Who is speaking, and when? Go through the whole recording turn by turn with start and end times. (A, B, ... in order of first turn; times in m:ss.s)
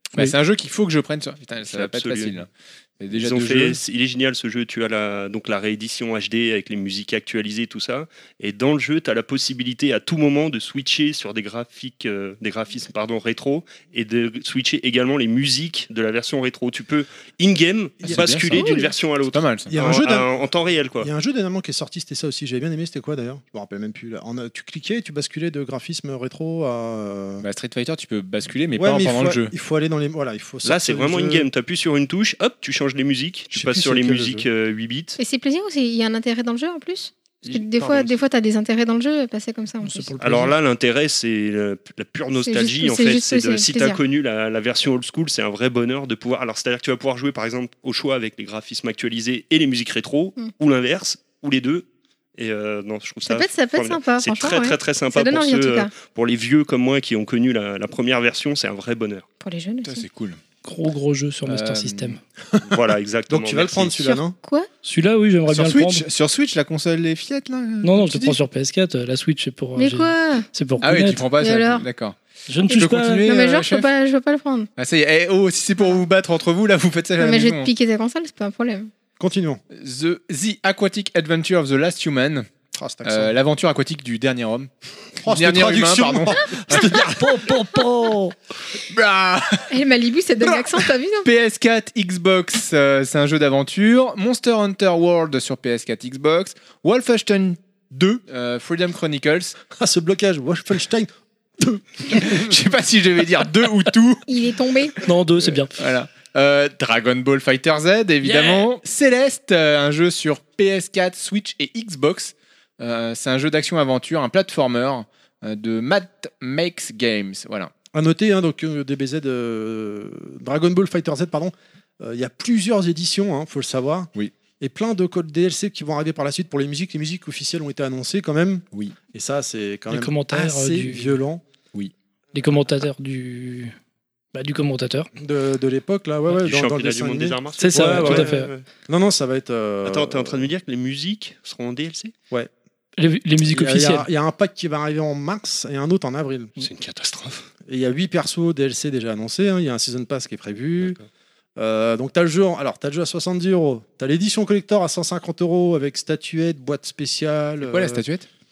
0:00.1-0:03.8 A
0:01.6-0:02.4 B
0:03.1-0:21.1 B
0:18.0-0:18.8 A
0:18.5-0:18.9 C
0:19.3-0:19.7 A
0:19.7-0:20.3 D
0:21.0-0:27.4 D
0:27.4-0:29.5 A
0:28.8-0:31.5 D
0:30.6-0:35.2 B
0:33.5-0:34.4 D
0:35.2-0:40.1 C
0:37.4-0:38.2 B
0:39.8-0:40.6 E
0:40.2-0:59.3 B
0:42.4-0:44.0 C
0:53.2-0:55.9 C
0:59.4-1:00.0 C
0:59.8-1:00.4 A
1:00.6-1:02.2 E
1:01.4-1:02.2 A
1:02.6-1:04.2 B
1:03.3-1:04.4 D
1:04.3-1:04.7 C
1:04.8-1:06.0 E
1:05.5-1:08.4 A
1:07.8-1:11.3 E
1:09.8-1:10.5 C
1:10.8-1:13.8 A
1:11.4-1:11.9 C
1:12.5-1:13.3 E
1:13.1-1:14.7 C
1:14.8-1:17.7 A
1:17.2-1:18.9 C
1:19.2-1:19.6 D
1:19.7-1:22.5 A
1:22.7-1:23.3 D
1:23.0-1:24.7 A
1:25.2-1:28.2 D
1:25.2-1:28.3 A
1:28.8-1:29.7 A
1:29.7-1:31.3 C
1:31.2-1:39.6 A
1:39.7-1:42.4 D
1:42.1-1:44.2 A
1:44.3-1:45.0 C
1:45.0-1:45.8 E
1:45.3-1:57.7 A
1:57.9-2:11.4 D
2:09.9-2:11.2 E
2:12.3-2:13.7 E
2:14.3-2:15.1 E
2:15.2-2:18.4 D
2:16.3-2:18.6 B
2:17.6-2:18.5 E
2:18.9-2:20.5 D
2:19.8-2:22.1 B
2:23.0-2:24.1 E
2:23.4-2:26.6 D
2:26.6-2:27.5 B
2:27.7-2:31.0 D
2:30.8-2:31.1 B
2:31.6-2:38.0 D
2:37.7-2:38.3 A